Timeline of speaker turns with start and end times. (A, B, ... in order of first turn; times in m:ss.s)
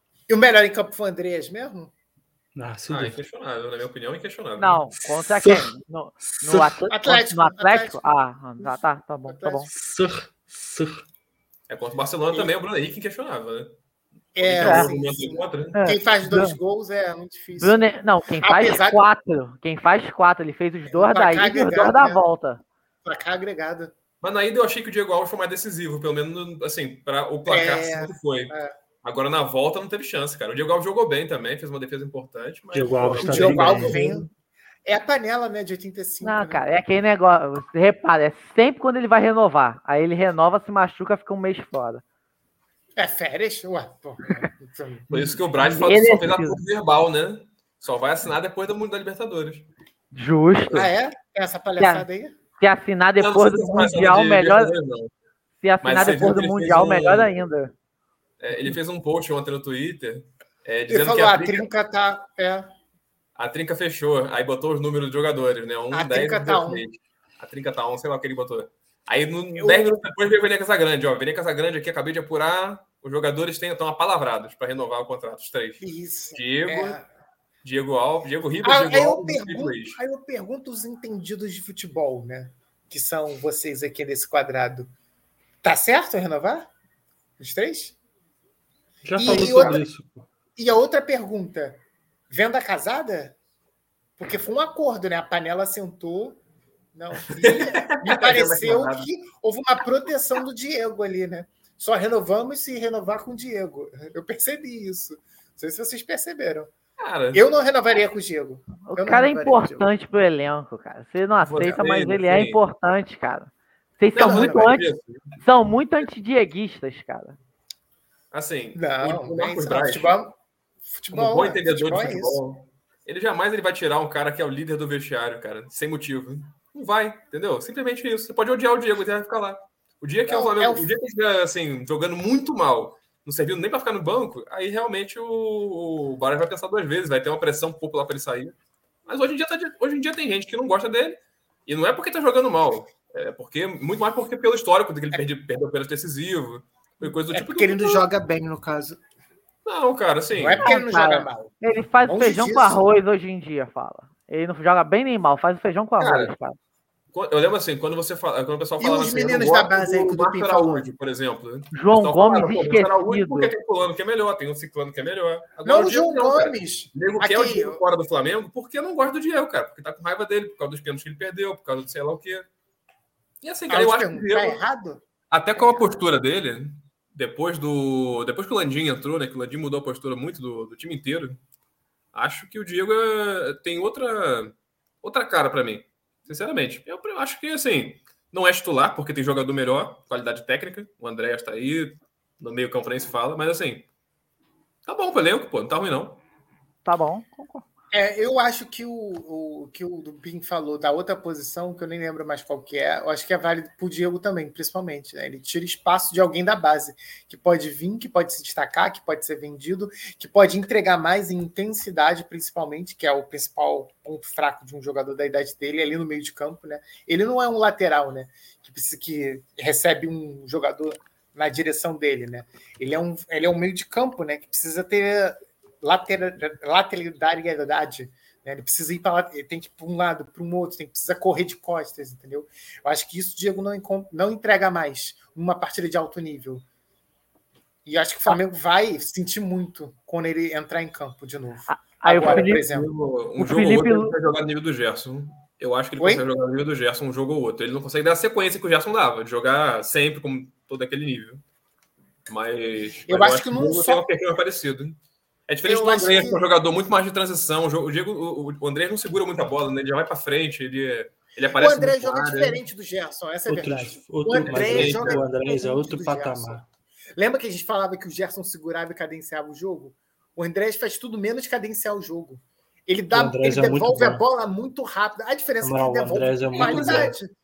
0:00.3-0:01.9 A
0:02.6-0:03.2 B
0:02.9-0:04.9 C
0:04.6-0:09.7 D
0:05.3-0:05.7 B
0:06.4-0:06.9 B
0:06.9-0:08.0 A
0:08.6-0:09.7 A
0:09.7-0:11.0 B
0:11.7-0:13.8 C
0:14.4-0:17.8 A
0:14.4-0:15.8 C
0:14.6-0:14.9 D
0:15.7-0:16.6 D
0:17.6-0:22.6 D
0:18.4-0:19.0 A
0:20.9-0:22.2 A
0:23.0-0:23.9 A
0:24.2-0:34.0 C
0:27.5-0:28.7 A
0:32.7-0:34.3 B
0:33.2-0:34.3 A
0:34.8-0:36.6 A
0:36.2-0:42.0 D
0:43.0-0:45.1 A
0:45.1-0:49.7 C
0:45.6-0:46.6 D
0:50.1-0:50.9 D
0:50.7-0:52.4 A
0:51.8-0:52.1 D
0:52.6-0:54.7 D
0:53.2-0:55.1 C
0:55.6-0:57.7 D
0:55.8-0:57.3 C
0:58.4-1:01.7 C
1:00.9-1:02.7 A
1:03.4-1:15.8 C
1:05.9-1:06.8 A
1:09.6-1:10.0 A
1:15.8-1:17.0 A
1:16.4-1:17.0 C
1:17.6-1:20.0 C
1:18.6-1:24.9 A
1:25.6-1:26.7 A
1:27.4-1:28.0 A
1:29.0-1:30.3 B
1:29.2-1:29.8 A
1:29.3-1:29.8 C
1:30.6-1:33.4 A
1:34.2-1:36.4 A
1:36.9-1:46.7 A
1:37.2-1:39.1 C
1:47.0-1:47.4 C
1:47.3-1:49.9 A
1:48.9-1:54.9 D
1:51.4-1:52.6 C
1:54.1-1:55.3 C
1:54.2-1:54.7 A
1:55.4-1:57.4 D
1:58.3-2:00.2 C
1:58.8-2:00.3 A
2:00.8-2:02.4 A
2:01.1-2:28.1 C
2:10.3-2:10.9 A
2:27.0-2:29.0 A
2:29.6-2:30.8 C
2:30.3-2:31.5 A
2:30.6-2:36.6 D
2:32.0-2:32.8 A
2:36.0-2:36.3 C
2:37.1-2:52.5 C
2:38.8-2:40.9 A
2:41.7-2:43.5 D
2:45.6-2:47.8 A
2:53.4-2:54.6 C
2:53.7-2:55.0 A
2:55.3-3:01.4 C
2:55.6-2:55.8 A
3:02.1-3:13.9 C
3:14.9-3:16.2 C
3:16.8-3:17.6 D
3:17.9-3:56.6 A
3:57.9-4:02.9 A
4:01.7-4:02.6 D
4:02.2-4:11.4 C
4:03.4-4:04.1 D
4:06.0-4:06.2 A
4:12.3-4:15.0 C
4:13.0-4:14.0 A
4:15.5-4:22.6 C
4:15.6-4:16.4 A
4:21.6-4:37.3 A
4:23.5-4:26.6 B
4:24.4-4:25.2 C
4:33.1-4:34.2 B
4:35.6-4:37.2 B
4:36.5-4:37.1 C